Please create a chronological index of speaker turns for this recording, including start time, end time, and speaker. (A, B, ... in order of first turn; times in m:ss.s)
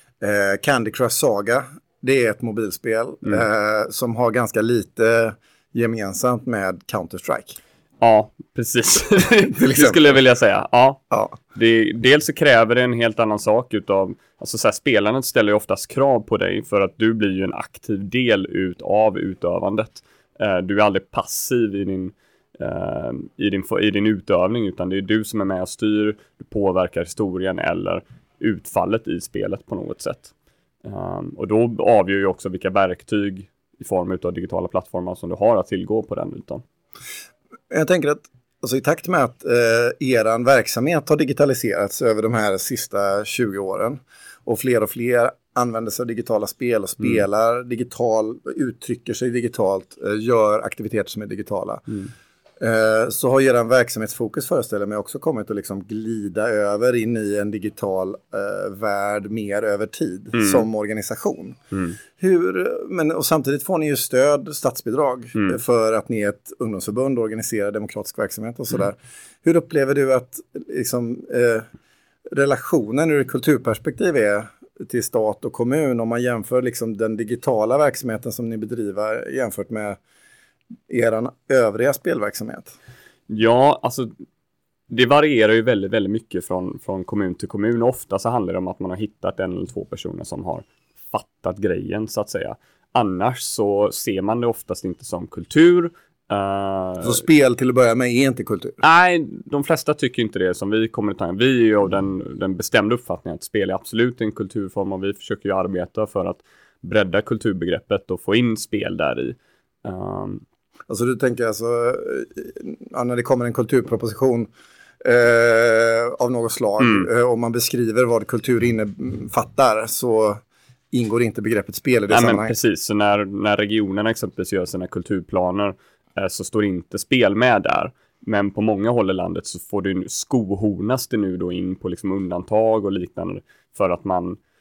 0:00.2-0:07.6 A
0:08.0-0:11.0 B
0:09.5-0:10.0 A
0:11.1-0:11.4 A
0:11.5-0:30.3 B
0:30.8-0:36.6 B
0:37.7-0:51.8 A
0:52.6-1:01.6 A
1:00.4-1:00.6 B
1:01.7-1:02.0 B
1:02.2-1:11.7 A
1:12.3-1:20.0 A
1:20.9-1:22.7 A
1:23.3-1:24.1 B
1:24.9-1:37.2 B
1:37.0-1:38.8 A
1:38.8-1:50.4 B
1:50.9-1:54.5 A
1:55.0-2:02.5 A
1:56.8-1:57.1 B
2:02.1-2:14.4 B